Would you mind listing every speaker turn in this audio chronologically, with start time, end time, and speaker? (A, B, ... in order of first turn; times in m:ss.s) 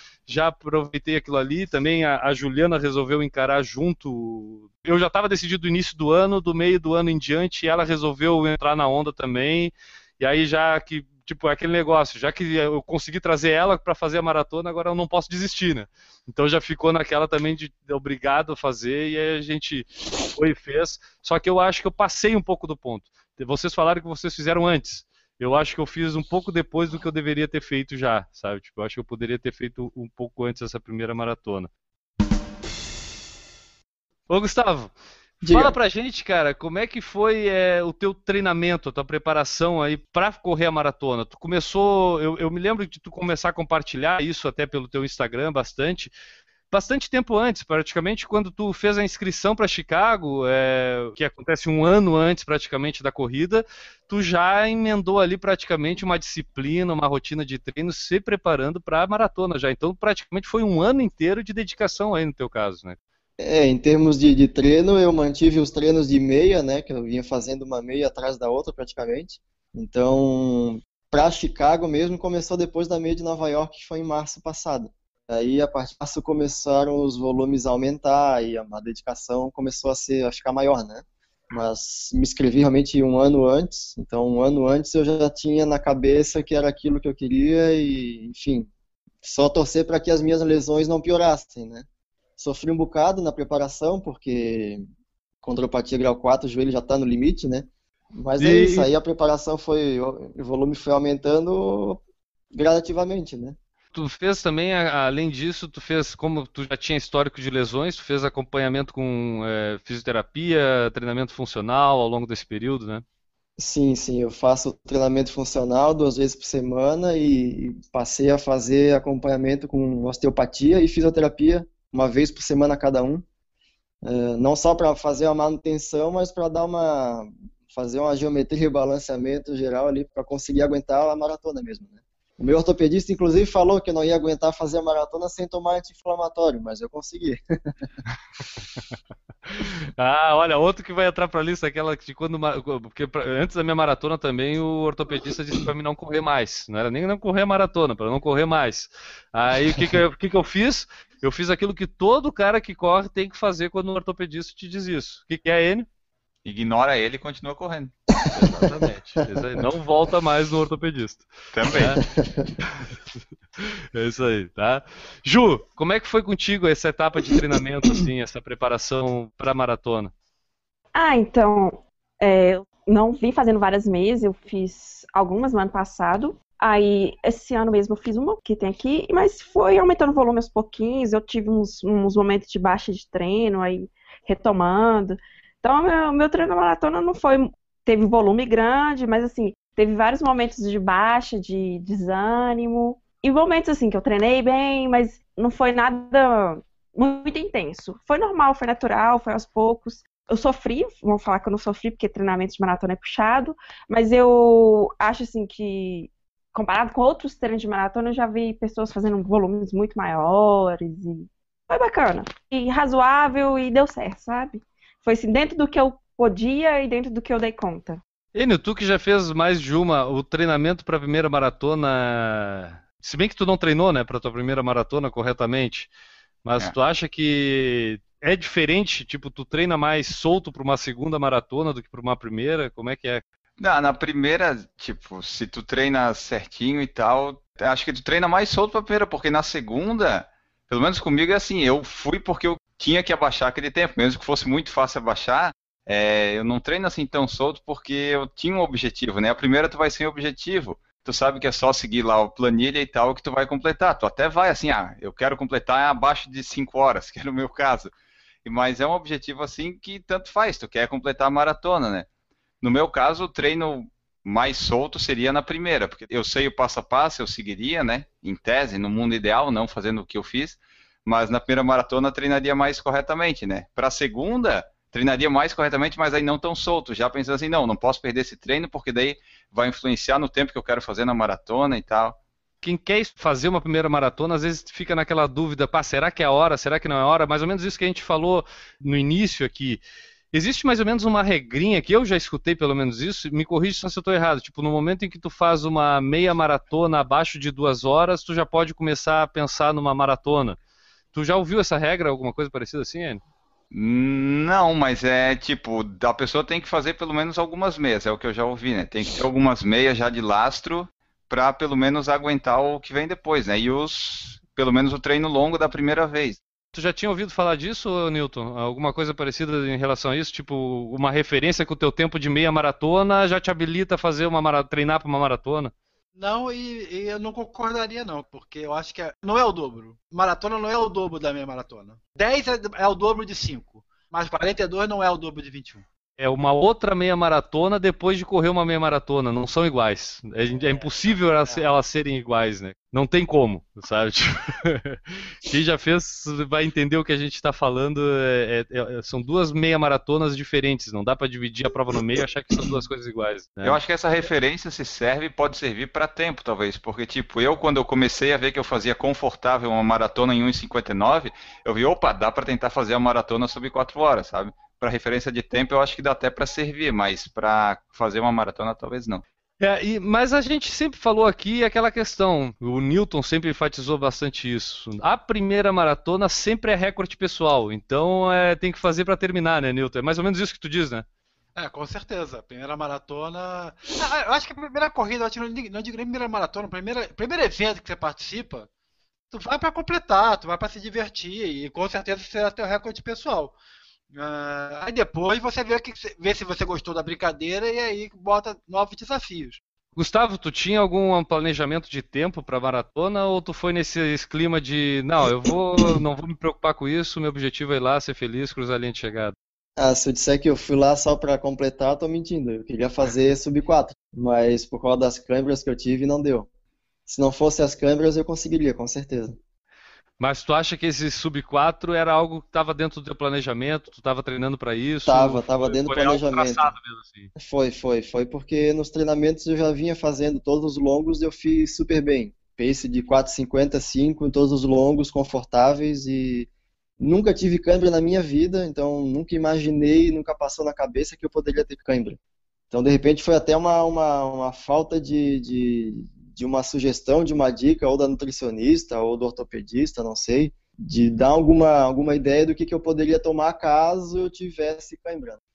0:00.3-0:31.7 A
0:34.3-0:34.9 A
0:35.4-0:35.7 B
0:35.5-0:46.1 A
0:46.7-1:03.0 A
1:03.4-1:28.7 B
1:29.2-1:31.8 B
1:32.4-1:34.8 B
1:35.4-1:42.0 B
1:38.4-1:38.9 A
1:42.5-1:43.6 B
1:43.9-1:53.0 A
1:53.6-2:03.2 B
2:04.0-2:17.4 B
2:19.5-2:35.9 A
2:36.4-2:37.9 C
2:38.2-2:39.3 B
2:38.3-2:42.0 A
2:41.5-2:42.0 C
2:41.8-2:42.5 B
2:43.6-2:50.1 A
2:50.9-3:38.0 D
3:38.3-3:45.9 A
3:46.4-3:53.2 A
3:53.6-4:17.9 C
4:18.4-4:22.1 C
4:22.6-4:42.2 C
4:42.6-4:49.8 A
4:50.3-5:00.6 A
5:01.1-5:03.2 A
5:03.7-5:16.4 C
5:16.7-5:25.7 A
5:26.2-5:35.8 E
5:36.2-5:53.8 A
5:53.6-6:09.2 C
6:09.6-6:21.0 A
6:21.6-6:28.7 E
6:29.3-6:33.6 E
6:34.1-6:39.6 E
6:40.0-6:49.4 A
6:49.8-6:56.5 B
6:57.1-6:59.4 B
7:00.2-7:07.3 A
7:05.0-7:06.8 B
7:07.4-7:22.2 B
7:22.7-7:35.4 B